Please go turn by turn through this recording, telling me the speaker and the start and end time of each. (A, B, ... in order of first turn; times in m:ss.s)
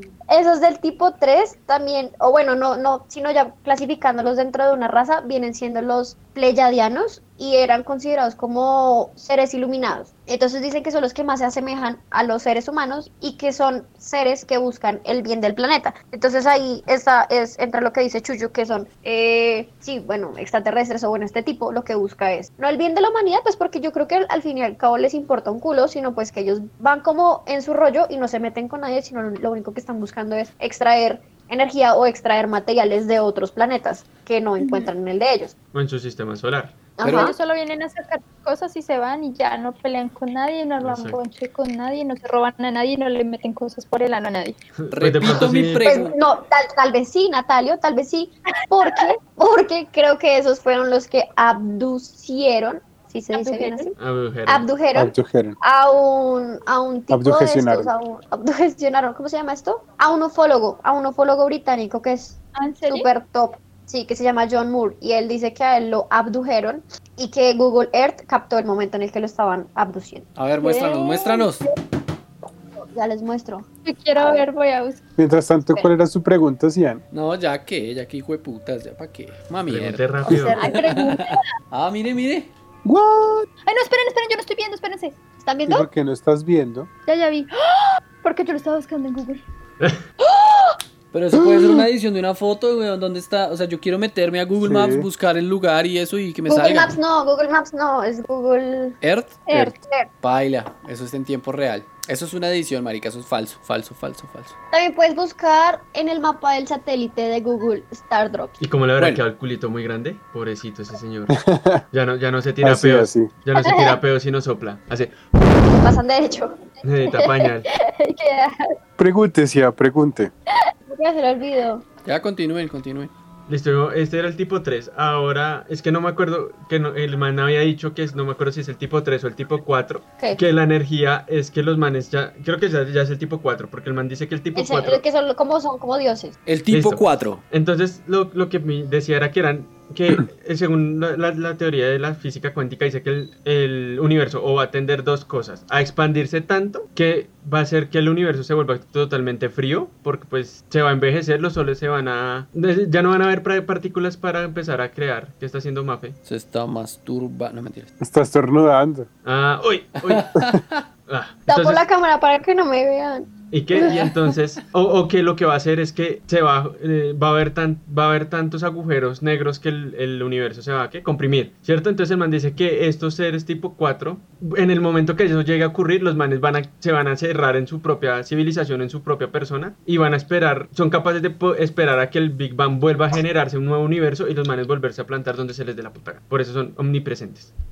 0:00.3-0:35.5 A
0:34.6-0:34.9 B
0:35.7-0:36.8 C
0:37.0-0:37.4 A
0:37.0-0:37.3 D
0:37.1-0:44.6 B
0:40.8-0:41.2 C
0:44.8-0:45.9 C
0:44.9-0:46.2 D
0:45.8-0:53.9 A
0:53.3-0:53.9 B
0:54.0-0:54.7 C
0:54.5-1:10.3 A
0:55.0-0:55.6 E
0:57.1-0:57.9 E
1:02.5-1:03.1 B
1:10.4-1:11.6 D
1:10.6-1:11.7 B
1:12.9-1:13.7 A
1:13.8-1:15.0 B
1:15.2-1:17.0 E
1:17.1-1:22.5 D
1:19.7-1:20.6 C
1:20.3-1:21.0 A
1:20.5-1:21.5 B
1:22.8-1:23.5 E
1:23.7-1:25.2 B
1:25.4-1:25.9 A
1:25.6-1:26.9 E
1:27.1-1:29.4 B
1:30.2-1:30.8 B
1:31.1-1:37.0 D
1:34.6-1:35.1 E
1:36.5-1:40.1 A
1:39.0-1:44.5 D
1:44.7-1:48.6 A
1:48.6-1:51.4 C
1:51.3-1:51.8 E
1:51.9-1:55.2 C
1:52.6-1:53.3 E
1:53.6-1:54.0 B
1:55.7-1:56.6 A
1:56.8-1:57.7 C
1:57.1-1:58.7 B
1:59.0-2:00.3 E
2:00.9-2:01.8 A
2:02.0-2:03.1 D
2:03.5-2:15.0 C
2:14.6-2:16.4 A
2:16.5-2:17.4 D
2:16.7-2:36.2 C
2:36.3-2:37.9 D
2:38.0-2:39.1 E
2:39.2-2:40.3 C
2:40.0-2:40.8 D
2:41.1-2:41.9 C
2:41.5-2:44.0 A
2:43.5-3:07.5 C
2:43.9-2:44.1 D